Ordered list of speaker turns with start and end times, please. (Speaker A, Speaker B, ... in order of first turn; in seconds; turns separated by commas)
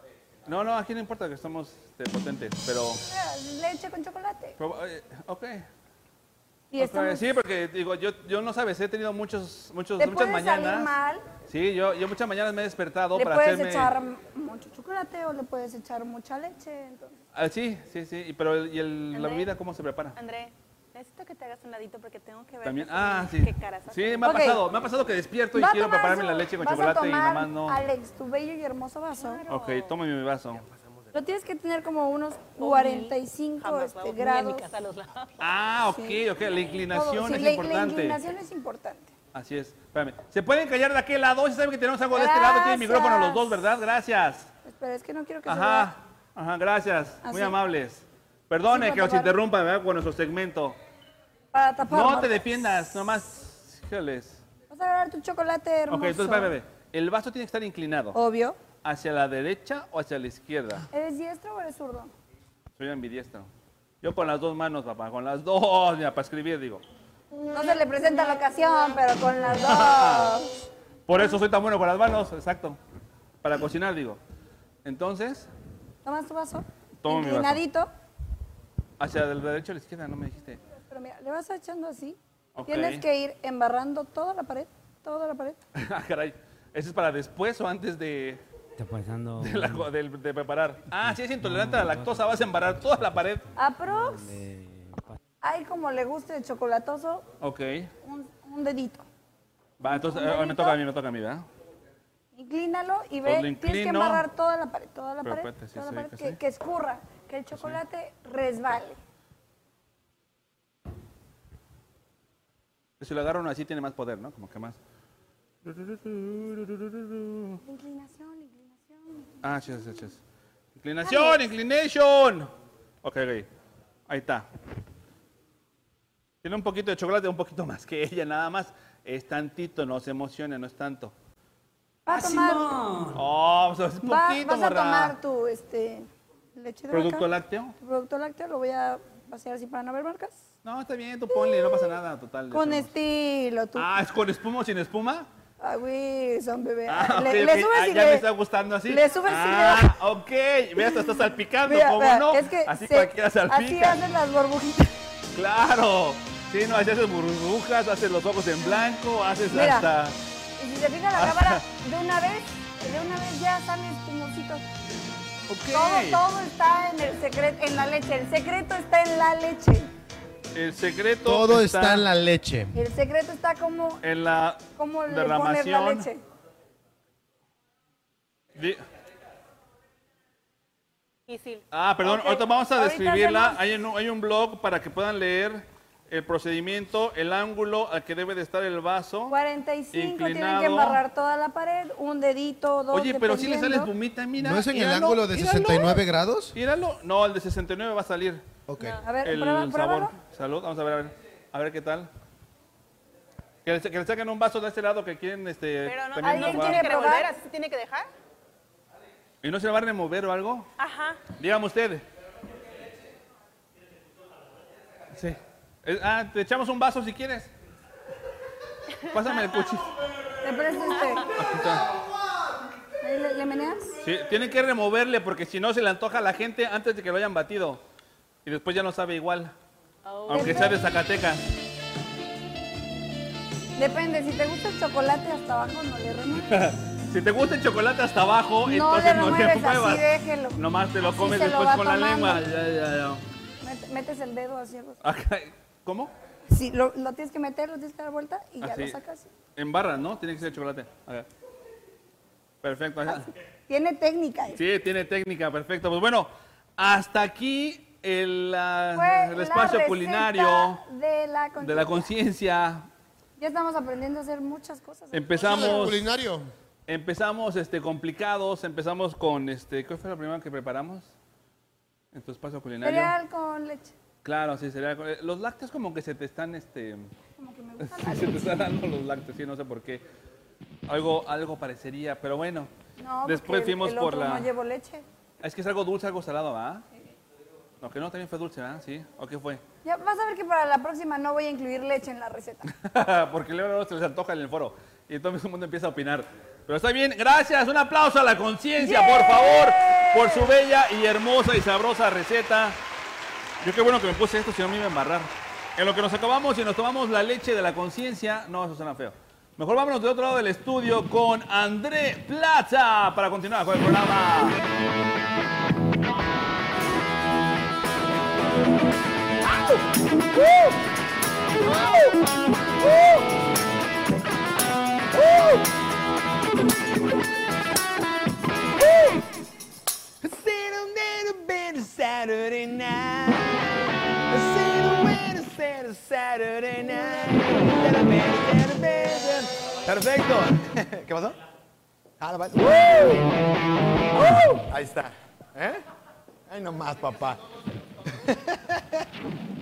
Speaker A: 0.5-3.0, Speaker B: 3.0-4.6, Speaker A: 4.6-5.7, Speaker B: 6.7-7.2, Speaker A: 6.8-10.9, Speaker B: 10.0-11.2, Speaker A: 11.5-13.9, Speaker B: 13.1-17.1, Speaker A: 17.3-20.1, Speaker C: 19.1-19.5, Speaker C: 20.1-24.6, Speaker A: 22.6-27.8, Speaker B: 24.2-24.6, Speaker B: 25.5-29.4, Speaker C: 29.2-29.9, Speaker A: 29.5-30.6, Speaker B: 31.1-34.6, Speaker C: 32.6-35.4, Speaker A: 35.4-38.2, Speaker B: 35.9-36.2, Speaker B: 36.9-39.1, Speaker A: 39.3-44.5, Speaker B: 42.1-43.6, Speaker B: 44.6-45.9, Speaker A: 45.5-50.8, Speaker B: 47.2-47.6, Speaker B: 48.7-49.3, Speaker B: 51.5-52.4, Speaker A: 51.9-54.4, Speaker B: 54.7-56.5, Speaker A: 55.9-58.2, Speaker B: 58.1-58.6, Speaker A: 58.8-60.9, Speaker B: 60.9-62.1, Speaker A: 62.8-63.5, Speaker A: 64.0-66.8, Speaker B: 67.5-70.5, Speaker A: 69.6-70.3, Speaker A: 71.1-72.8, Speaker A: 73.4-74.2, Speaker A: 74.8-75.5, Speaker B: 76.0-77.9, Speaker A: 77.0-77.6, Speaker A: 79.0-80.6, Speaker B: 80.8-85.6, Speaker A: 82.5-83.0, Speaker A: 85.7-88.4, Speaker D: 88.8-89.9, Speaker A: 89.4-93.5, Speaker D: 91.0-93.3, Speaker B: 93.5-94.3, Speaker D: 93.9-95.2, Speaker B: 95.4-97.2, Speaker A: 97.4-97.9, Speaker B: 98.0-99.0, Speaker A: 99.8-101.5, Speaker B: 99.8-100.8, Speaker B: 102.3-109.0, Speaker A: 103.2-104.2, Speaker A: 105.2-106.4, Speaker A: 113.0-114.8, Speaker A: 115.6-117.6, Speaker B: 117.6-120.1, Speaker A: 119.4-120.2, Speaker A: 120.8-122.5, Speaker B: 121.0-121.4, Speaker A: 123.0-123.5, Speaker A: 124.1-124.5, Speaker A: 126.4-131.1, Speaker B: 132.1-132.8, Speaker A: 133.1-135.1, Speaker B: 134.0-140.4, Speaker A: 136.9-137.7, Speaker A: 140.6-142.9, Speaker B: 141.3-141.9, Speaker B: 142.5-143.9, Speaker A: 143.8-145.3, Speaker B: 145.6-148.3, Speaker A: 146.9-154.0, Speaker B: 148.9-149.9, Speaker B: 150.8-154.9, Speaker A: 155.3-160.1, Speaker B: 159.5-159.9, Speaker B: 160.6-164.6, Speaker A: 161.2-161.6, Speaker A: 165.5-166.2, Speaker B: 165.7-169.9, Speaker A: 170.5-172.1, Speaker E: 171.2-172.7, Speaker B: 172.7-174.0, Speaker A: 174.0-176.1, Speaker B: 174.8-176.2, Speaker A: 178.5-178.8, Speaker C: 181.3-181.6, Speaker A: 181.7-189.3, Speaker B: 182.0-183.6, Speaker B: 189.3-193.9, Speaker A: 189.9-191.0, Speaker A: 192.9-196.0, Speaker E: 194.4-196.5, Speaker A: 196.5-198.4, Speaker E: 198.7-199.0, Speaker B: 199.0-200.1, Speaker A: 199.2-202.1, Speaker A: 203.6-207.1, Speaker C: 205.8-208.1, Speaker B: 206.2-207.3, Speaker A: 209.4-210.7, Speaker C: 210.8-211.2, Speaker A: 211.3-212.0, Speaker A: 215.1-217.5, Speaker A: 219.1-219.9, Speaker B: 220.4-221.3, Speaker A: 221.3-221.9, Speaker B: 223.0-224.0, Speaker A: 224.0-227.8, Speaker A: 228.4-229.5, Speaker C: 230.0-230.7, Speaker A: 230.3-231.4, Speaker B: 230.3-230.8, Speaker B: 233.8-236.5, Speaker A: 236.5-240.0, Speaker B: 238.6-242.4, Speaker A: 240.6-243.2, Speaker B: 243.6-245.0, Speaker A: 245.0-246.1, Speaker B: 246.5-249.3, Speaker A: 248.6-249.0, Speaker A: 249.6-251.3, Speaker A: 252.6-253.3, Speaker B: 253.1-254.6, Speaker A: 254.6-260.8, Speaker B: 258.9-262.1, Speaker A: 261.6-262.9, Speaker B: 263.4-265.9, Speaker A: 265.1-266.1, Speaker E: 265.4-266.5, Speaker A: 266.9-271.1, Speaker A: 272.1-273.1, Speaker B: 272.8-273.9, Speaker A: 274.2-277.1, Speaker B: 277.4-278.7, Speaker A: 277.8-280.0, Speaker A: 280.9-282.7, Speaker B: 283.0-285.0, Speaker A: 283.2-284.5, Speaker A: 285.4-286.9, Speaker A: 287.8-289.6, Speaker B: 289.8-292.7, Speaker A: 292.7-302.8, Speaker B: 298.8-300.5, Speaker A: 303.6-314.6, Speaker F: 325.2-325.5, Speaker F: 330.2-341.4, Speaker F: 342.2-343.3, Speaker F: 344.2-345.8, Speaker F: 346.5-347.4, Speaker F: 348.0-349.1